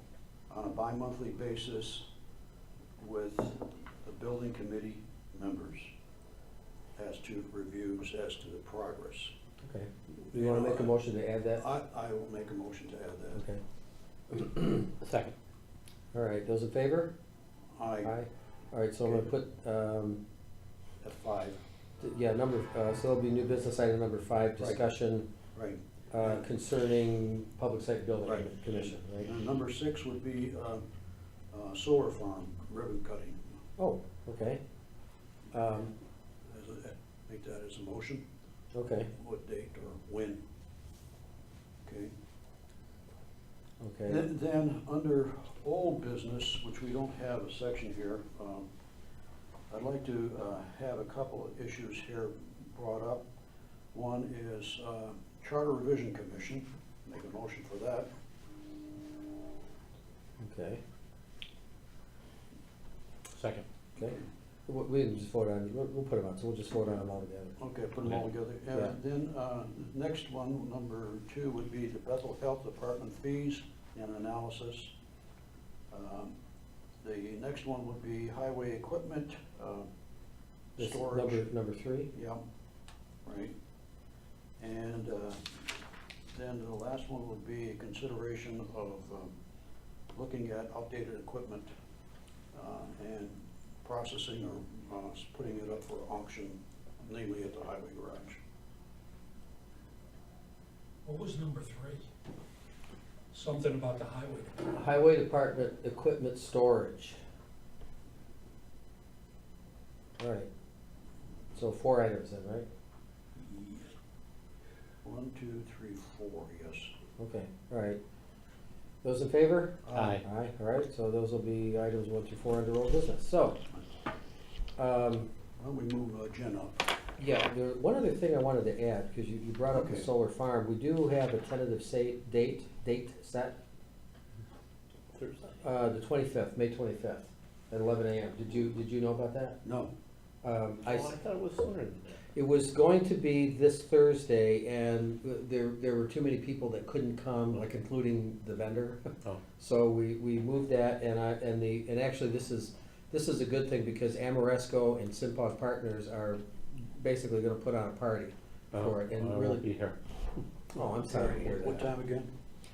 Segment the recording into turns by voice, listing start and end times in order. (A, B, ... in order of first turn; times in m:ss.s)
0:00.5-0:02.0 A
0:03.0-0:05.9 A
0:07.0-0:09.3 A
0:09.6-0:11.6 B
0:10.3-0:11.0 A
0:11.6-0:13.4 A
0:13.4-0:13.6 B
0:14.3-0:14.9 B
0:15.0-0:15.3 C
0:16.1-0:17.1 B
0:17.8-0:18.1 A
0:18.0-0:20.2 B
0:21.0-0:21.6 A
0:22.0-0:25.3 B
0:24.6-0:24.9 A
0:25.5-0:26.4 A
0:26.1-0:29.3 B
0:28.2-0:30.8 A
0:31.5-0:33.5 A
0:33.8-0:34.6 B
0:35.5-0:35.9 B
0:36.5-0:38.2 A
0:38.7-0:39.1 B
0:39.1-0:40.4 A
0:41.8-0:42.1 A
0:43.8-0:44.3 B
0:44.1-0:48.7 A
0:49.7-0:53.3 A
0:53.9-0:58.1 A
1:00.4-1:00.8 B
1:03.3-1:03.6 C
1:04.0-1:07.6 B
1:07.6-1:14.9 A
1:15.9-1:16.3 A
1:17.0-1:19.9 A
1:20.8-1:21.4 A
1:20.8-1:22.1 B
1:22.1-1:22.4 A
1:23.2-1:23.5 A
1:24.6-1:25.6 A
1:26.3-1:29.3 A
1:30.1-1:31.7 A
1:32.5-1:38.4 A
1:41.1-1:42.0 D
1:43.3-1:44.5 D
1:44.7-1:47.2 B
1:50.2-1:50.5 B
1:51.5-1:52.7 B
1:53.4-1:53.9 A
1:55.0-1:56.9 A
1:57.2-1:58.0 B
1:59.0-2:03.6 B
1:59.9-2:00.2 A
1:59.9-2:00.2 C
2:04.8-2:05.3 B
2:05.6-2:06.8 A
2:07.2-2:13.6 B
2:09.7-2:10.1 A
2:15.1-2:15.6 C
2:15.6-2:19.6 B
2:19.6-2:19.9 A
2:20.4-2:21.2 B
2:20.8-2:22.2 C
2:22.4-2:29.1 B
2:29.6-2:39.6 B
2:38.7-2:40.0 C
2:40.7-2:41.9 B
2:41.1-2:42.3 A